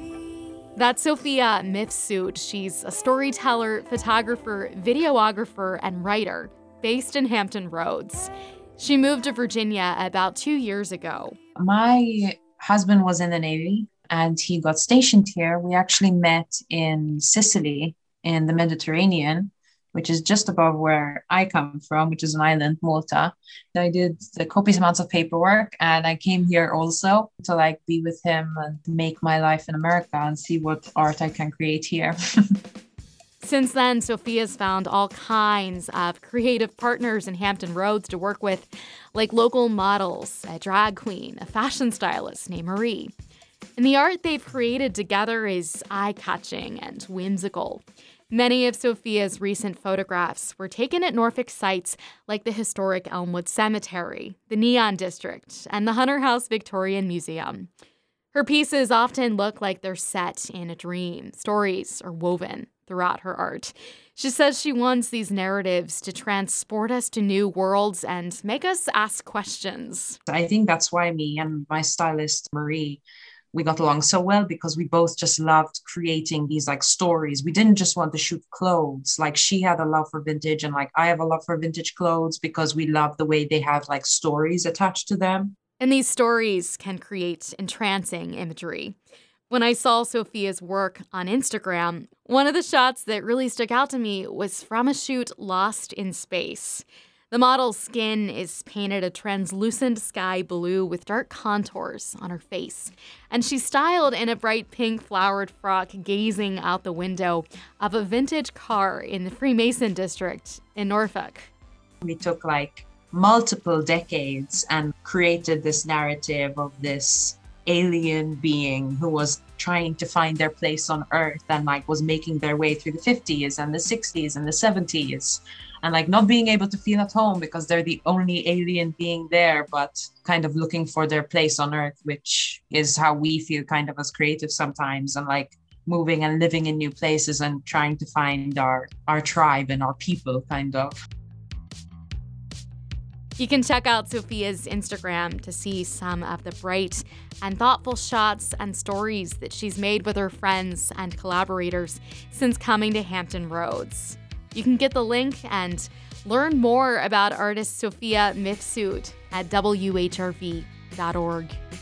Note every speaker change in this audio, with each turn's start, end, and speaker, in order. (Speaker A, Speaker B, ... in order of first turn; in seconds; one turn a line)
Speaker A: 0.8-11.4
Speaker B: 11.6-32.2
Speaker A: 33.4-43.1
Speaker A: 43.8-57.7
Speaker A: 58.3-70.2
Speaker B: 70.3-73.0
Speaker B: 73.5-85.5
Speaker A: 85.8-89.0
Speaker A: 89.5-111.5
Speaker B: 112.0-141.0
Speaker A: 143.4-161.6